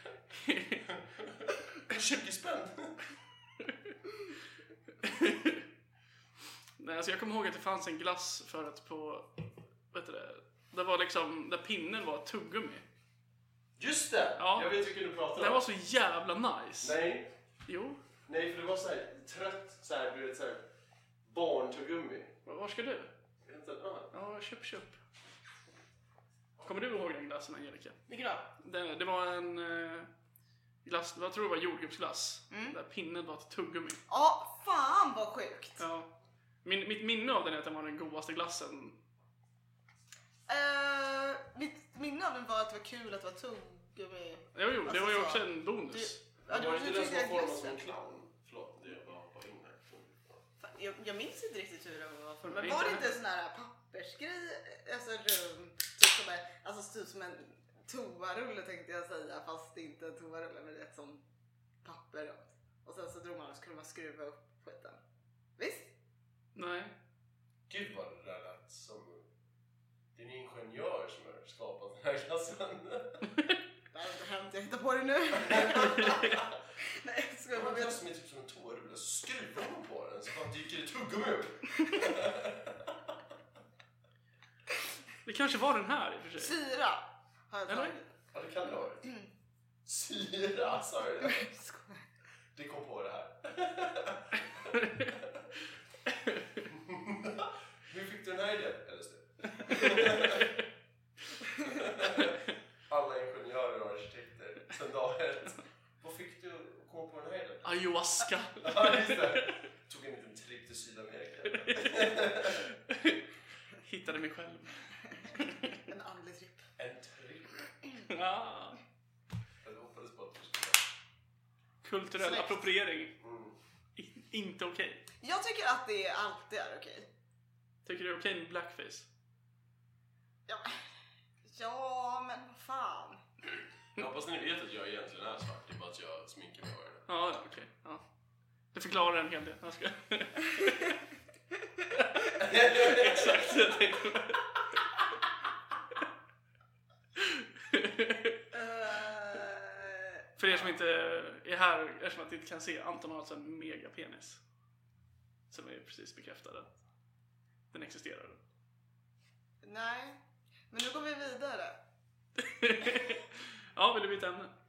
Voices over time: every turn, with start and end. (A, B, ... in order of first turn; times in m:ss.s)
0:00.3-0:00.9 A
0:00.9-0:03.0 B
0:05.0-0:05.6 A
0:06.8-0:12.8 A
0:13.8-0:15.6 B
0:14.4-0:14.7 A
0:15.4-0:17.0 A
0:16.8-0:17.3 B
0:17.7-0:18.0 A
0:18.3-0:20.7 B
0:21.2-0:22.4 B
0:22.4-0:23.1 A
0:23.4-0:24.1 B
0:24.1-0:25.0 A
0:26.6-0:28.0 A
0:28.1-0:28.4 B
0:28.6-0:30.1 A
0:30.8-0:34.0 A
0:32.5-0:32.8 C
0:34.1-0:35.8 C
0:35.8-0:36.1 A
0:36.6-0:39.0 A
0:40.5-0:47.9 C
0:44.6-0:46.2 A
0:46.5-0:50.4 B
0:50.6-1:01.2 C
0:52.4-0:53.2 A
1:01.8-1:05.0 C
1:05.6-1:05.9 C
1:06.6-1:06.9 A
1:07.7-1:09.3 B
1:10.1-1:13.3 B
1:13.9-1:18.0 C
1:15.4-1:16.3 B
1:16.0-1:16.3 A
1:17.5-1:23.2 B
1:21.7-1:22.1 C
1:25.2-1:26.6 A
1:26.4-1:28.1 C
1:27.7-1:28.0 A
1:28.3-1:29.1 B
1:29.8-1:31.5 B
1:31.2-1:32.1 C
1:32.6-1:35.5 B
1:36.7-1:40.5 B
1:39.9-1:40.4 A
1:41.6-1:47.8 B
1:47.6-1:49.5 A
1:48.6-1:52.7 B
1:51.6-1:52.0 A
1:52.7-1:53.2 A
1:53.8-1:54.8 A
1:55.6-1:56.7 C
1:56.8-1:57.7 B
1:58.0-1:58.8 A
1:59.6-2:00.9 B
2:01.8-2:03.2 A
2:02.2-2:02.6 C
2:03.2-2:03.6 B
2:04.0-2:05.0 A
2:05.2-2:07.1 C
2:07.8-2:09.1 A
2:10.5-2:10.8 C
2:11.4-2:13.2 C
2:14.0-2:17.1 B
2:17.1-2:18.0 A
2:18.7-2:21.0 A
2:21.9-2:24.4 A
2:22.4-2:23.8 B
2:27.2-2:28.4 A
2:28.5-2:30.2 C
2:30.4-2:34.4 A
2:35.5-2:36.7 A
2:37.7-2:38.4 A
2:39.6-2:41.8 C
2:42.4-2:44.5 A